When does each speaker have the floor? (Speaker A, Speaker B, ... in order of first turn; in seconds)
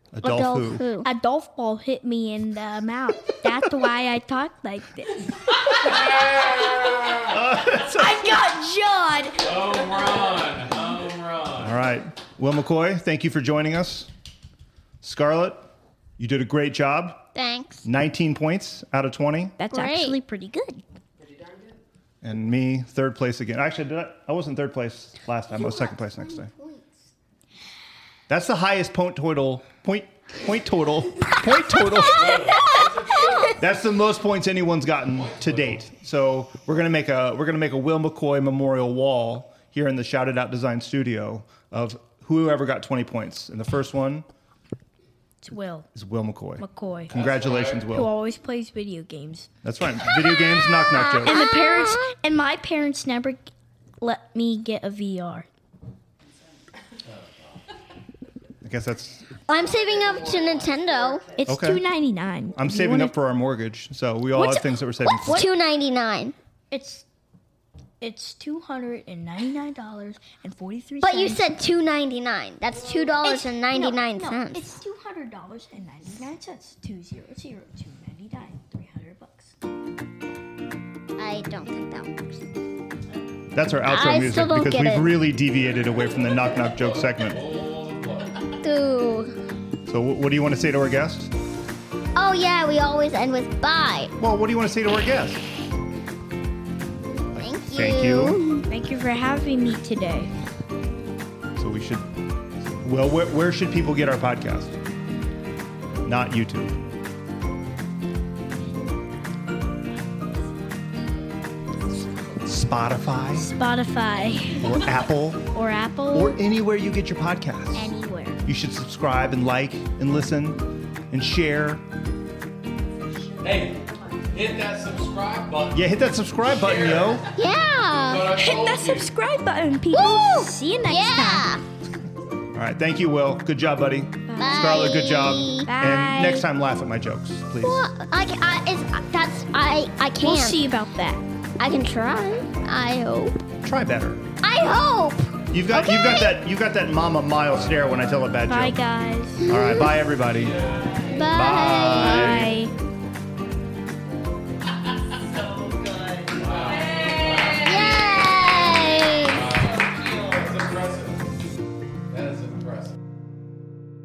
Speaker A: 0.1-0.8, 7.3-8.3, 11.6-14.1, 15.0-15.6, 16.2-17.3, 17.8-19.6, 22.2-26.5, 28.3-32.5, 33.5-44.2, 45.9-48.1, 49.6-51.4, 58.6-59.3, 61.5-61.8, 62.6-65.4, 83.5-87.4, 89.9-91.3, 94.2-95.5, 97.3-98.4, 101.6-102.1, 102.8-104.7, 106.0-106.8, 112.4-113.5, 114.6-115.4, 116.1-117.9, 118.4-121.8, 125.7-127.2, 132.5-137.9, 143.6-144.2, 145.5-148.8, 149.5-150.5, 151.3-152.6
Speaker B: 0.2-1.1, 17.3-17.9, 19.7-20.2, 25.6-26.8, 50.9-52.1, 59.5-61.2, 65.0-66.3, 71.0-74.7, 81.2-82.4, 83.9-85.1, 88.6-89.3, 92.1-94.1, 97.3-98.7, 127.3-128.3, 129.9-131.6, 134.4-135.7, 137.6-140.6, 141.6-143.4, 144.4-146.4, 149.5-149.9, 150.9-152.4, 157.5-159.4
Speaker C: 1.0-6.1, 7.8-9.5, 19.6-20.8, 32.5-32.9, 45.4-45.9, 46.6-47.1, 47.8-49.5, 51.1-53.5, 54.0-55.5, 61.4-63.1, 64.3-65.5, 66.7-67.0, 68.0-71.5, 73.2-79.5, 98.7-100.3, 113.3-114.9, 115.5-116.4, 117.7-118.4, 128.3-131.5, 134.3-136.5, 140.2-141.2, 148.5-149.4, 151.9-152.7
Speaker D: 5.7-7.4, 9.4-11.8, 32.1-33.6, 35.1-35.9, 47.1-47.9, 86.7-88.4, 123.4-125.8, 126.4-127.4, 128.0-129.1, 150.5-151.0, 156.3-158.1, 159.2-161.5, 162.1-162.9